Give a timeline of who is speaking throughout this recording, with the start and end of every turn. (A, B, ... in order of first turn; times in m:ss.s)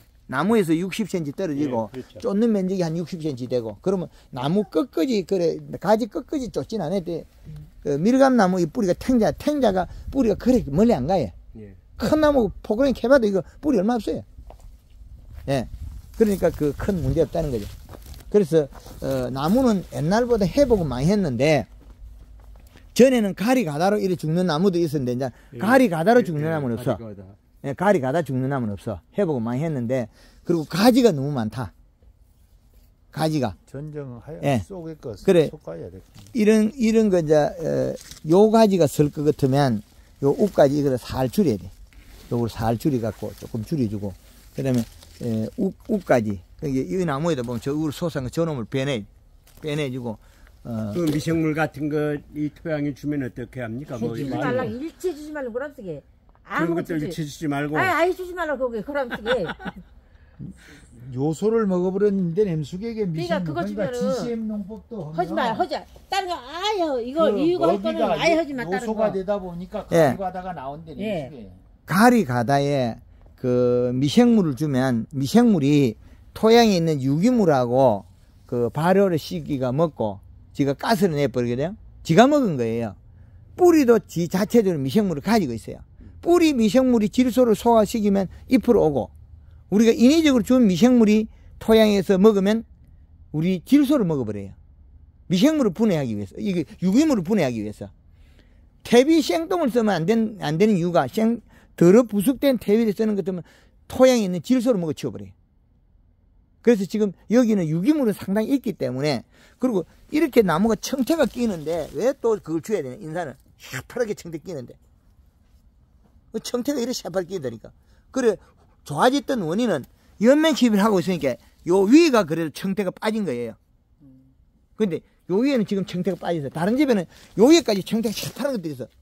0:00.3-0:07.3 A
0:01.5-0:02.2 B
0:07.8-0:11.3 A
0:12.0-0:14.2 A
0:15.5-0:17.7 A
0:18.3-0:21.7 A
0:22.9-0:27.0 A
0:25.5-0:27.4 B
0:27.6-0:31.7 A
0:33.1-0:33.6 A
0:33.7-0:36.3 C
0:35.2-0:35.5 A
0:36.3-0:41.7 A
0:42.3-0:49.1 A
0:49.6-0:51.1 A
0:50.9-0:54.7 B
0:53.9-0:54.8 C
0:54.2-0:57.2 D
0:56.6-0:58.0 B
0:57.7-0:59.8 D
1:00.4-1:05.7 C
1:03.1-1:04.3 D
1:05.1-1:09.2 D
1:07.1-1:11.6 C
1:09.9-1:10.2 A
1:11.0-1:11.3 D
1:11.9-1:23.0 A
1:23.6-1:29.1 A
1:29.7-1:32.6 A
1:33.3-1:34.5 A
1:35.3-1:37.9 A
1:38.8-1:45.3 A
1:46.6-1:54.8 A
1:56.3-2:03.6 A
2:04.8-2:08.9 A